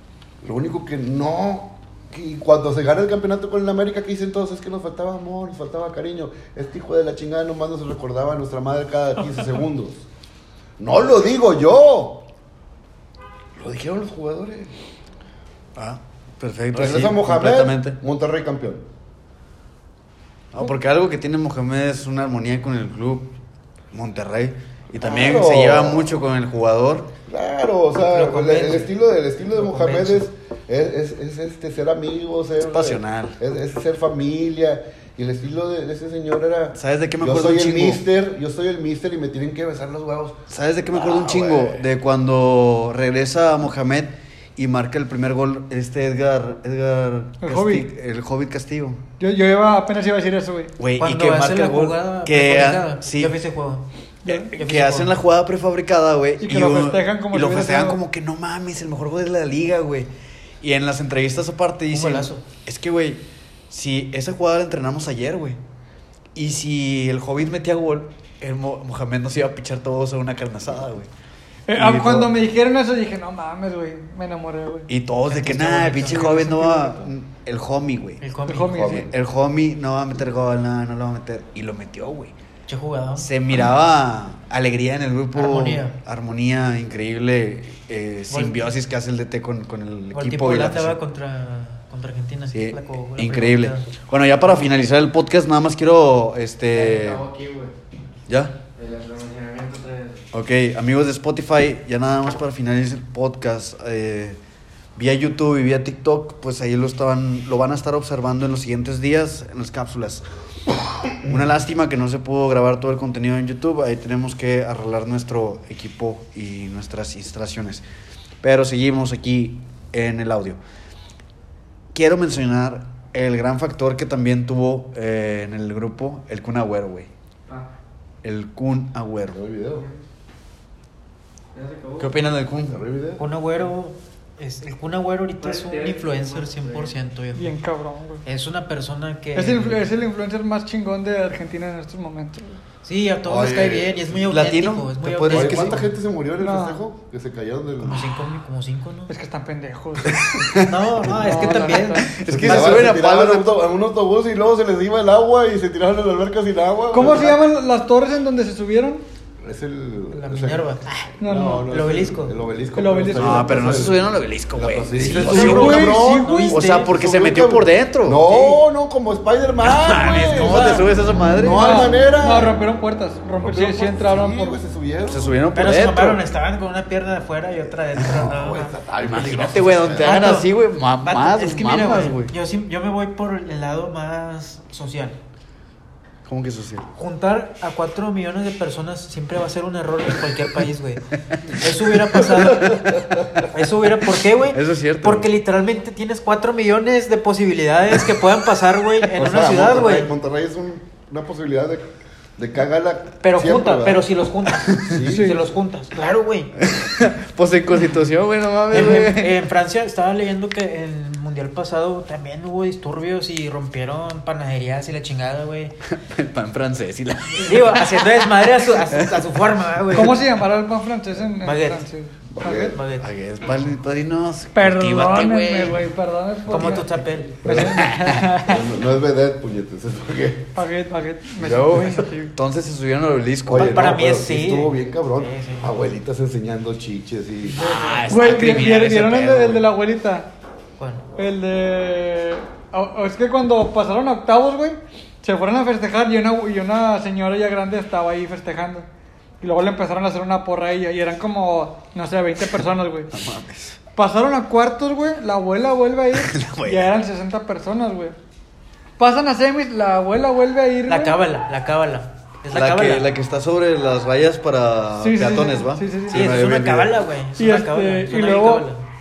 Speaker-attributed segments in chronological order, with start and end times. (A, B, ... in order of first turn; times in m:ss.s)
0:00.4-0:10.1 A
0:10.8-0:12.3 A
0:13.6-0:14.8 A
0:15.8-0:18.0 B
0:16.7-0:18.9 A
0:20.5-0:23.3 B
0:23.9-0:27.1 B
0:25.0-0:26.2 A
0:27.3-0:40.4 A
0:28.1-0:28.9 C
0:29.6-0:30.3 C
0:32.6-0:33.4 B
0:36.8-0:38.0 B
0:40.5-0:49.0 B
0:40.9-0:41.8 A
0:47.4-0:47.9 D
0:49.2-0:50.7 D
0:50.8-0:53.4 B
0:51.0-0:53.8 C
0:54.2-0:54.5 D
0:54.3-1:00.1 B
0:54.5-0:55.2 C
0:56.4-0:58.0 D
1:00.6-1:05.6 B
1:01.9-1:02.4 C
1:06.4-1:11.1 B
1:11.7-1:14.9 D
1:11.8-1:12.3 B
1:14.9-1:18.2 B
1:15.3-1:17.1 C
1:18.2-1:19.0 C
1:18.4-1:19.1 D
1:18.8-1:22.3 B
1:22.7-1:23.3 C
1:23.2-1:31.0 B
1:25.3-1:26.0 C
1:28.3-1:28.7 C
1:30.1-1:33.9 C
1:32.5-1:37.2 B
1:36.7-1:37.7 E
1:38.3-1:38.5 B
1:38.8-1:40.3 E
1:40.3-1:44.4 B
1:45.0-1:50.2 B
1:51.2-1:57.8 B
1:58.4-2:00.6 B
2:01.9-2:07.1 B
2:08.2-2:09.4 B
2:09.3-2:09.9 A
2:09.7-2:10.0 E
2:11.5-2:12.3 E
2:12.0-2:12.8 B
2:12.6-2:13.2 A
2:13.2-2:17.6 C
2:15.4-2:16.9 E
2:17.4-2:18.2 D
2:18.2-2:19.9 C
2:19.4-2:22.6 D
2:22.8-2:25.9 C
2:23.2-2:24.2 A
2:24.2-2:25.8 B
2:25.3-2:28.2 A
2:26.4-2:26.8 D
2:27.8-2:29.2 C
2:29.1-2:32.2 D
2:30.1-2:33.5 B
2:30.6-2:32.9 C
2:32.3-2:37.4 A
2:36.9-2:39.0 D
2:39.4-2:52.5 A
2:40.1-2:40.8 C
2:41.2-2:41.7 D
2:41.6-2:42.4 C
2:42.8-2:43.8 D
2:43.2-2:48.3 B
2:45.1-2:46.9 C
2:45.1-2:46.6 D
2:48.3-2:48.6 C
2:49.6-2:51.8 B
2:50.4-2:50.8 C
2:51.5-2:54.6 D
2:53.4-2:55.4 A
2:55.1-2:56.3 B
2:55.5-2:58.7 C
2:58.1-3:00.2 A
2:59.0-3:02.3 B
2:59.9-3:00.5 C
3:01.0-3:05.2 C
3:06.2-3:06.8 B
3:07.0-3:20.1 C
3:14.5-3:15.3 B
3:19.2-3:24.1 A
3:23.2-3:26.5 C
3:24.6-3:24.9 B
3:24.8-3:25.5 A
3:25.0-3:25.4 D
3:26.6-3:29.4 B
3:28.7-3:35.8 C
3:35.9-3:39.2 B
3:37.4-3:40.2 C
3:39.9-3:42.7 D
3:41.4-3:41.8 C
3:42.3-3:42.8 A
3:42.4-3:43.1 C
3:43.0-3:45.8 B
3:44.5-3:48.6 D
3:46.5-3:48.4 C
3:47.4-3:47.9 A
3:47.6-3:48.2 B
3:48.4-3:50.5 A
3:50.5-3:52.3 D
3:51.4-3:53.9 B
3:53.5-3:57.6 A
3:53.5-3:55.7 C
3:57.6-3:58.1 C
3:57.6-3:59.7 B
3:57.8-4:00.3 D
4:00.8-4:01.0 C
4:01.2-4:08.9 D
4:09.4-4:13.1 D
4:13.1-4:13.8 B
4:14.0-4:18.2 D
4:16.1-4:16.9 B
4:19.0-4:21.2 D
4:20.9-4:23.1 C
4:22.5-4:27.0 B
4:25.0-4:26.4 D
4:26.1-4:28.8 C
4:27.4-4:28.7 D